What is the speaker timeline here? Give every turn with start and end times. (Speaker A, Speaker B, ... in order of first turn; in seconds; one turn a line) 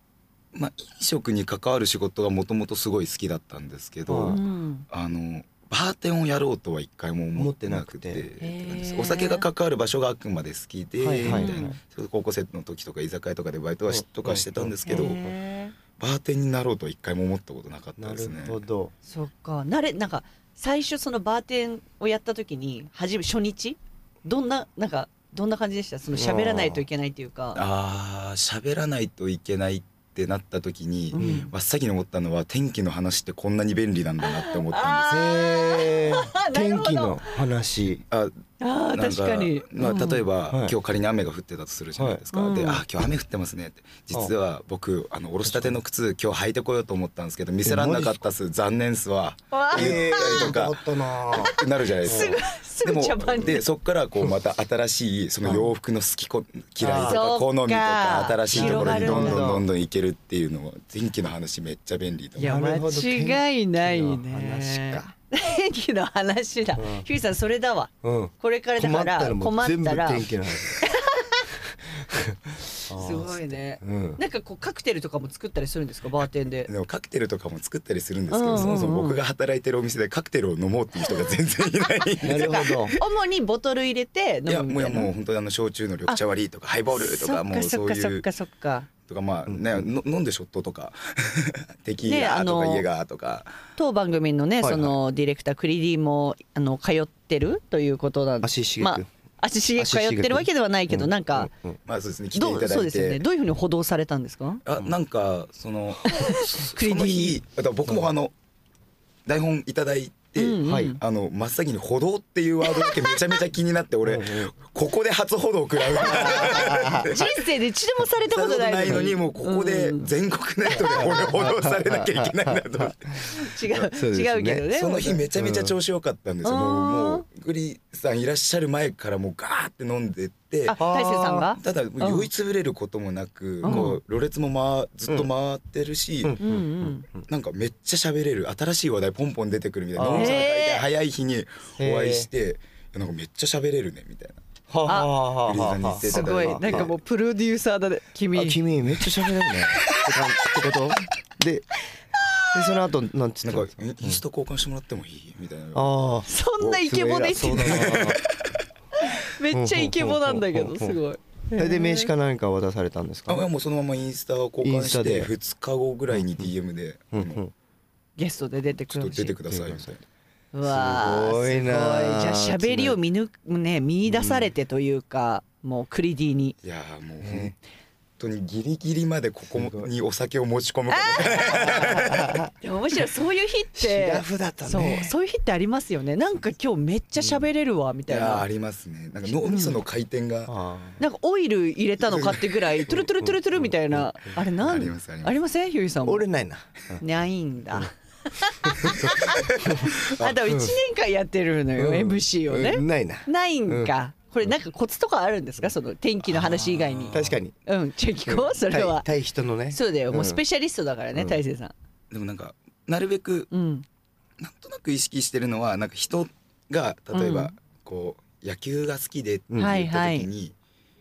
Speaker A: 0.5-15.2
Speaker B: 4.1-4.4
Speaker C: 4.3-4.8
Speaker B: 7.3-8.2
Speaker C: 8.4-9.4
Speaker B: 11.0-11.6
Speaker C: 11.3-11.8
Speaker B: 13.9-15.3
Speaker C: 14.9-15.7
Speaker A: 16.0-18.6
Speaker B: 18.0-18.9
Speaker C: 19.1-27.6
Speaker B: 26.1-26.8
Speaker A: 27.5-35.1
Speaker C: 31.1-31.5
Speaker B: 31.1-31.4
Speaker C: 34.2-37.3
Speaker B: 35.1-38.0
Speaker C: 38.6-40.2
Speaker A: 38.9-62.5
Speaker B: 40.5-40.7
Speaker B: 42.0-42.2
Speaker C: 42.3-42.8
Speaker B: 45.4-45.8
Speaker B: 47.6-48.2
Speaker C: 49.5-50.5
Speaker B: 49.7-52.4
Speaker C: 52.0-53.6
Speaker B: 55.4-55.7
Speaker B: 56.8-57.2
Speaker C: 57.1-59.5
Speaker B: 58.5-59.6
Speaker B: 62.4-65.1
Speaker C: 62.4-71.4
Speaker B: 66.8-67.1
Speaker B: 68.0-70.8
Speaker B: 71.9-74.2
Speaker C: 72.9-76.7
Speaker A: 76.7-82.9
Speaker C: 78.3-79.2
Speaker B: 78.5-79.0
Speaker C: 82.2-85.1
Speaker B: 82.2-82.9
Speaker A: 84.5-88.3
Speaker C: 86.9-88.9
Speaker A: 89.1-93.5
Speaker B: 89.5-89.9
Speaker C: 92.0-92.8
Speaker C: 93.8-101.5
Speaker B: 94.6-95.0
Speaker B: 98.4-99.1
Speaker B: 99.8-101.8
Speaker A: 101.9-103.2
Speaker C: 102.3-104.6
Speaker A: 104.6-108.3
Speaker C: 106.1-107.4
Speaker A: 109.2-117.4
Speaker C: 110.3-111.0
Speaker B: 110.6-110.9
Speaker C: 112.7-113.0
Speaker B: 114.0-114.5
Speaker C: 116.0-116.3
Speaker B: 116.0-117.1
Speaker C: 117.0-120.1
Speaker A: 118.3-123.5
Speaker C: 120.7-121.0
Speaker B: 120.8-123.3
Speaker C: 123.3-125.2
Speaker B: 123.8-124.7
Speaker A: 124.7-130.8
Speaker B: 125.3-125.7
Speaker C: 126.4-127.2
Speaker C: 130.7-132.3
Speaker B: 130.7-131.5
Speaker A: 131.6-136.3
Speaker C: 133.6-133.9
Speaker B: 133.6-134.0
Speaker B: 136.2-137.3
Speaker C: 136.4-137.0
Speaker A: 137.3-144.4
Speaker B: 139.9-140.4
Speaker C: 140.1-140.8
Speaker B: 141.8-142.3
Speaker B: 144.7-146.9
Speaker C: 144.9-145.2
Speaker A: 145.4-146.9
Speaker C: 146.0-149.3
Speaker B: 148.3-151.7
Speaker B: 152.5-154.2
Speaker A: 153.4-156.1
Speaker B: 155.7-158.2
Speaker C: 156.3-158.0
Speaker A: 157.4-158.5
Speaker C: 159.1-162.1
Speaker B: 159.5-161.0
Speaker B: 161.5-163.5
Speaker A: 163.3-167.4
Speaker B: 164.6-165.3
Speaker B: 166.1-166.5
Speaker B: 167.1-167.5
Speaker C: 168.2-169.3
Speaker A: 168.9-170.0
Speaker B: 169.4-170.0
Speaker C: 170.5-176.5
Speaker B: 170.6-173.0
Speaker B: 174.1-174.5
Speaker A: 176.6-177.6
Speaker B: 177.2-177.5
Speaker A: 178.2-182.2
Speaker B: 179.5-179.9
Speaker C: 180.9-182.1
Speaker B: 181.4-182.5
Speaker C: 182.6-188.5
Speaker B: 183.7-185.1
Speaker A: 188.1-190.5
Speaker C: 189.2-189.8
Speaker B: 190.5-191.0
Speaker C: 191.0-196.3
Speaker B: 192.1-194.4
Speaker A: 194.6-195.4
Speaker B: 196.0-197.0
Speaker C: 197.0-209.1
Speaker B: 198.6-200.7
Speaker A: 200.1-200.3
Speaker B: 201.8-203.9
Speaker A: 206.7-207.3
Speaker B: 207.1-207.5
Speaker B: 208.2-210.4
Speaker C: 209.7-211.7
Speaker B: 211.1-211.4
Speaker A: 212.1-213.5
Speaker C: 213.5-213.8
Speaker A: 214.4-220.5
Speaker C: 217.1-217.5
Speaker B: 219.5-219.7
Speaker C: 219.6-220.3